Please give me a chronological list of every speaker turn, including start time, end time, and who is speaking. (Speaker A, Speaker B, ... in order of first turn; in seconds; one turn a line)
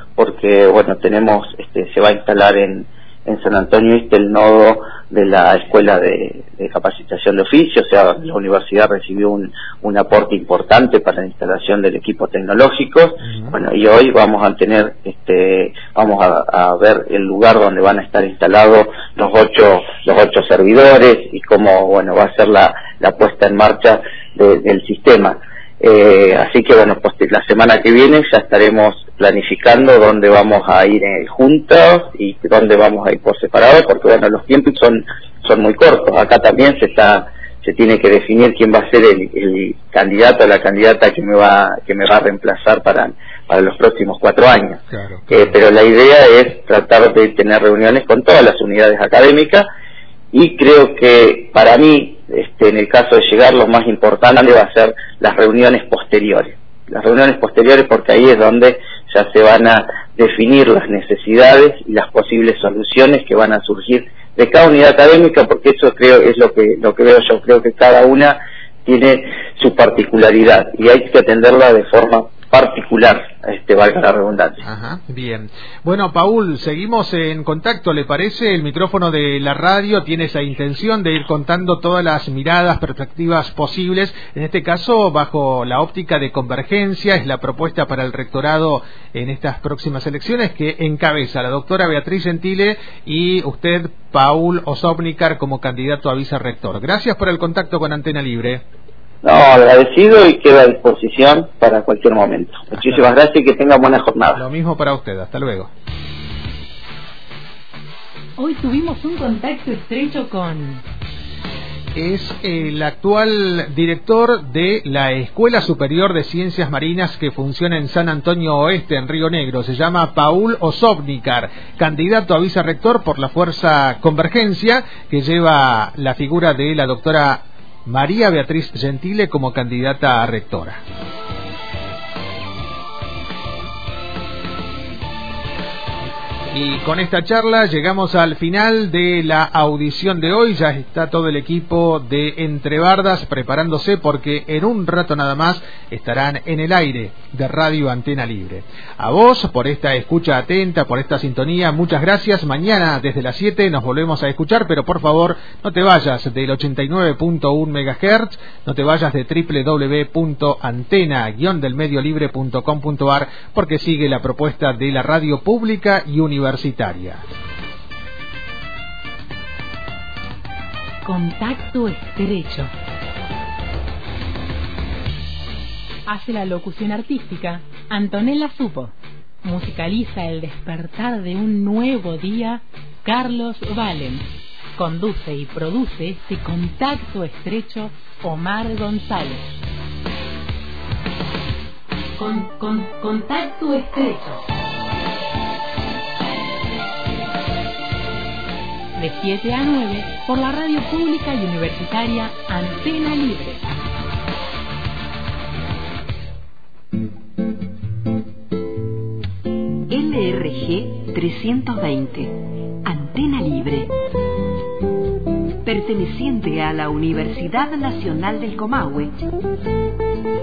Speaker A: 0.2-49.7
Speaker B: 13.2-13.5
Speaker B: 44.9-45.5
Speaker A: 50.3-74.6
Speaker B: 74.6-98.6
Speaker A: 99.2-104.4
Speaker B: 102.8-103.0
Speaker B: 104.3-105.7
Speaker C: 108.4-110.8
Speaker B: 111.9-130.8
Speaker B: 136.5-167.2
Speaker C: 171.0-172.7
Speaker C: 176.1-189.6
Speaker C: 192.2-194.4
Speaker C: 199.0-203.7
Speaker D: 209.9-213.9
Speaker D: 215.6-219.1